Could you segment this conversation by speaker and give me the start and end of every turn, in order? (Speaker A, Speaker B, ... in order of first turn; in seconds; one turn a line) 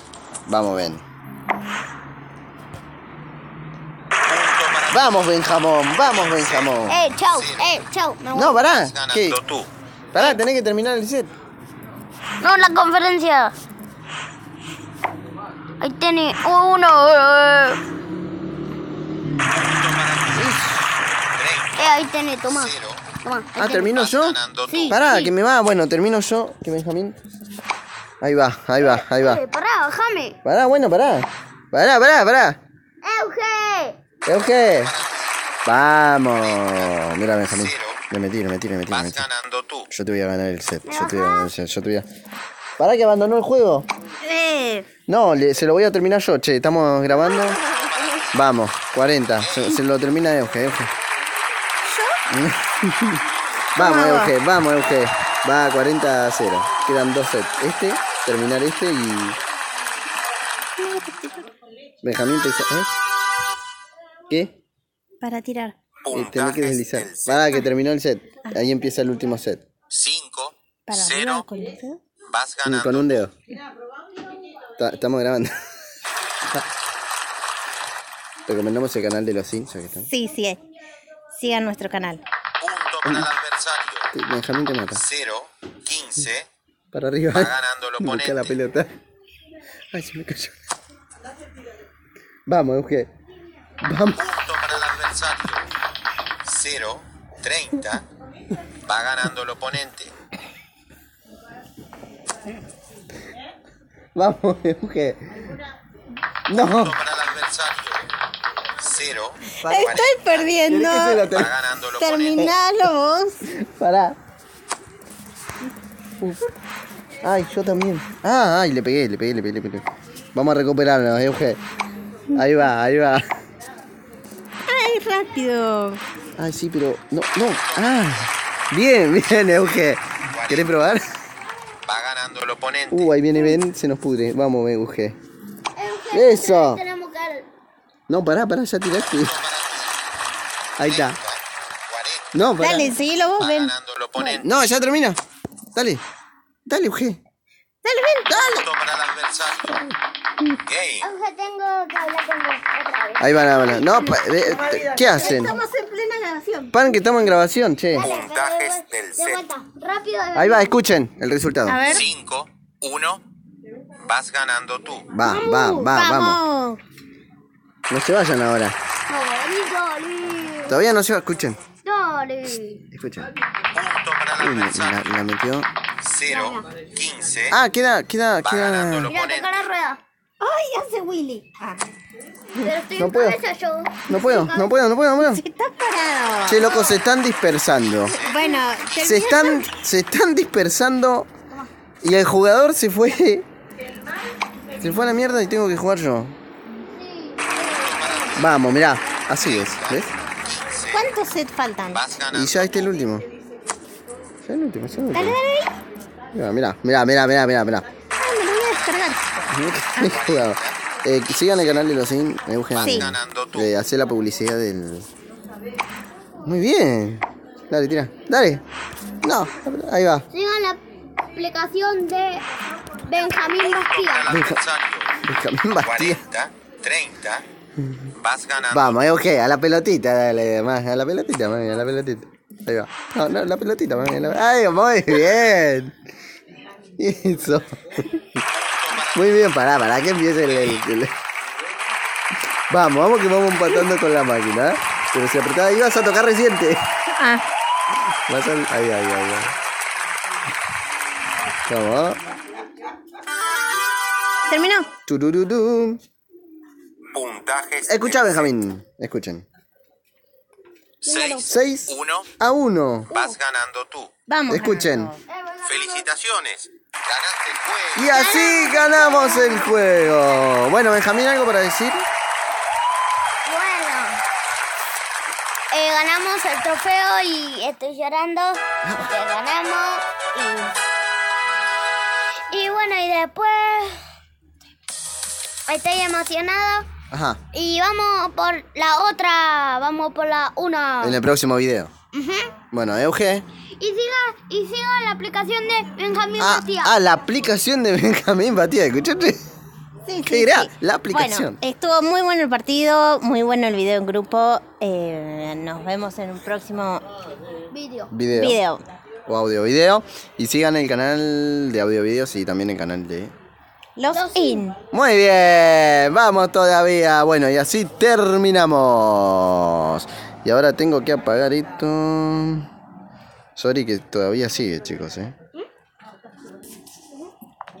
Speaker A: 0.5-1.0
Speaker B: 4.2-5.2
Speaker A: 4.9-7.0
Speaker B: 6.0-6.8
Speaker C: 6.9-8.6
Speaker B: 7.3-7.8
Speaker A: 8.3-9.4
Speaker B: 8.7-9.7
Speaker A: 10.1-11.3
Speaker C: 12.4-13.5
Speaker C: 15.8-17.8
Speaker B: 19.6-20.6
Speaker A: 20.4-20.9
Speaker B: 21.3-23.0
Speaker C: 21.8-23.9
Speaker A: 23.6-24.4
Speaker B: 23.9-25.0
Speaker C: 24.7-25.3
Speaker A: 24.9-27.2
Speaker A: 28.2-29.4
Speaker C: 28.9-30.4
Speaker A: 30.4-32.6
Speaker C: 33.0-34.0
Speaker A: 34.2-34.9
Speaker B: 34.4-35.4
Speaker A: 35.6-39.2
Speaker B: 36.2-38.0
Speaker B: 38.9-39.9
Speaker A: 39.9-42.1
Speaker C: 40.9-41.5
Speaker A: 42.8-43.9
Speaker D: 44.2-44.9
Speaker A: 45.1-47.6
Speaker D: 47.1-48.2
Speaker B: 47.6-48.3
Speaker A: 48.3-50.9
Speaker B: 49.4-49.8
Speaker D: 51.8-52.2
Speaker A: 52.3-53.2
Speaker A: 53.7-59.4
Speaker D: 53.8-54.3
Speaker D: 60.8-61.4
Speaker A: 62.0-62.9
Speaker A: 64.3-64.5
Speaker D: 65.2-65.8
Speaker B: 66.0-67.6
Speaker A: 66.1-69.6
Speaker B: 69.9-71.5
Speaker D: 70.9-72.0
Speaker B: 72.3-73.2
Speaker A: 72.6-73.3
Speaker A: 74.8-75.7
Speaker A: 78.5-80.1
Speaker D: 80.1-80.6
Speaker D: 81.3-82.2
Speaker B: 82.6-84.1
Speaker A: 84.1-85.0
Speaker B: 84.9-86.5
Speaker A: 86.9-88.9
Speaker B: 87.3-88.5
Speaker A: 89.9-90.5
Speaker A: 92.5-93.1
Speaker A: 93.8-94.2
Speaker B: 94.2-95.6
Speaker B: 96.4-98.0
Speaker B: 98.8-100.1
Speaker A: 104.1-105.3
Speaker A: 106.5-107.0
Speaker B: 106.5-108.1
Speaker B: 108.8-110.6
Speaker A: 109.6-110.0
Speaker D: 109.6-111.4
Speaker A: 110.6-111.5
Speaker B: 111.3-112.5
Speaker D: 112.0-113.4
Speaker A: 113.5-114.2
Speaker A: 116.2-116.5
Speaker A: 117.2-121.6
Speaker A: 122.3-123.2
Speaker D: 124.7-126.0
Speaker A: 126.4-131.1
Speaker B: 127.6-128.3
Speaker B: 130.3-130.9
Speaker B: 131.8-133.2
Speaker A: 132.9-135.2
Speaker C: 135.8-137.5
Speaker A: 136.1-136.8
Speaker A: 138.1-139.3
Speaker B: 139.1-140.0
Speaker A: 140.8-141.2
Speaker B: 140.8-142.3
Speaker A: 142.3-142.9
Speaker D: 142.6-143.7
Speaker B: 143.4-144.7
Speaker A: 144.3-145.2
Speaker A: 145.7-146.0
Speaker A: 146.7-147.2
Speaker D: 147.8-148.4
Speaker A: 148.3-148.7
Speaker B: 148.3-149.9
Speaker B: 150.7-151.1
Speaker C: 151.0-153.5
Speaker A: 153.2-155.5
Speaker D: 153.8-156.8
Speaker A: 156.7-158.1
Speaker C: 157.9-160.8
Speaker B: 158.0-159.4
Speaker A: 160.3-161.9
Speaker D: 161.7-162.1
Speaker B: 161.9-163.2
Speaker B: 164.0-165.1
Speaker A: 165.1-166.4
Speaker C: 165.2-165.9
Speaker D: 165.3-166.8
Speaker A: 167.9-168.7
Speaker C: 169.1-170.8
Speaker A: 170.7-171.6
Speaker C: 171.8-172.8
Speaker A: 172.9-173.3
Speaker B: 173.7-175.1
Speaker A: 174.4-175.7
Speaker B: 176.0-177.6
Speaker C: 176.3-176.6
Speaker A: 177.5-179.1
Speaker B: 178.4-179.7
Speaker C: 179.1-180.0
Speaker D: 180.4-181.8
Speaker A: 182.5-183.4
Speaker C: 182.6-184.7
Speaker A: 184.1-185.4
Speaker D: 185.2-186.8
Speaker A: 186.4-188.2
Speaker C: 186.5-186.9
Speaker B: 188.1-188.5
Speaker D: 188.1-189.7
Speaker A: 188.9-191.3
Speaker A: 192.0-193.5
Speaker A: 194.8-196.3
Speaker C: 196.9-198.3
Speaker B: 197.6-198.5
Speaker A: 198.3-200.1
Speaker B: 199.4-201.1
Speaker D: 200.9-202.0
Speaker B: 201.9-202.8
Speaker A: 202.3-203.2
Speaker A: 204.4-205.4
Speaker D: 205.1-205.8
Speaker A: 206.3-207.9
Speaker D: 208.2-210.1
Speaker A: 209.5-215.1
Speaker B: 210.1-211.8
Speaker B: 212.7-213.7
Speaker D: 212.8-213.1
Speaker A: 216.4-218.6
Speaker A: 219.2-220.3
Speaker C: 220.3-222.4
Speaker C: 223.0-224.3
Speaker B: 223.5-225.1
Speaker A: 224.3-224.6
Speaker A: 225.2-226.2
Speaker B: 225.8-227.4
Speaker A: 227.8-228.1
Speaker B: 228.2-229.0
Speaker A: 228.7-235.9
Speaker A: 237.0-238.4
Speaker B: 238.5-239.3
Speaker A: 239.1-241.1
Speaker B: 240.4-240.8
Speaker A: 242.7-246.9
Speaker D: 247.2-247.4
Speaker A: 248.3-249.5
Speaker A: 251.7-252.2
Speaker D: 254.5-254.9
Speaker A: 255.1-256.0
Speaker B: 257.1-258.5
Speaker A: 257.9-259.4
Speaker B: 261.0-262.3
Speaker C: 261.0-261.5
Speaker A: 261.4-263.1
Speaker B: 263.1-264.1
Speaker D: 264.3-265.2
Speaker A: 264.5-265.1
Speaker C: 265.3-266.1
Speaker B: 265.6-268.3
Speaker A: 267.9-272.0
Speaker C: 268.1-269.8
Speaker C: 273.4-274.2
Speaker C: 275.7-280.8
Speaker A: 278.8-279.1
Speaker C: 282.5-284.0
Speaker C: 285.7-286.9
Speaker A: 287.1-287.4
Speaker C: 287.5-291.2
Speaker A: 291.0-291.9
Speaker C: 292.1-292.5
Speaker A: 292.7-293.4
Speaker C: 293.8-296.9
Speaker A: 296.4-299.4
Speaker D: 300.1-307.0
Speaker A: 300.3-301.6
Speaker C: 307.7-308.1
Speaker A: 308.1-308.6
Speaker D: 308.3-308.8
Speaker A: 309.3-313.3
Speaker D: 314.0-314.8
Speaker C: 314.1-314.6
Speaker A: 314.9-322.6
Speaker A: 323.6-325.3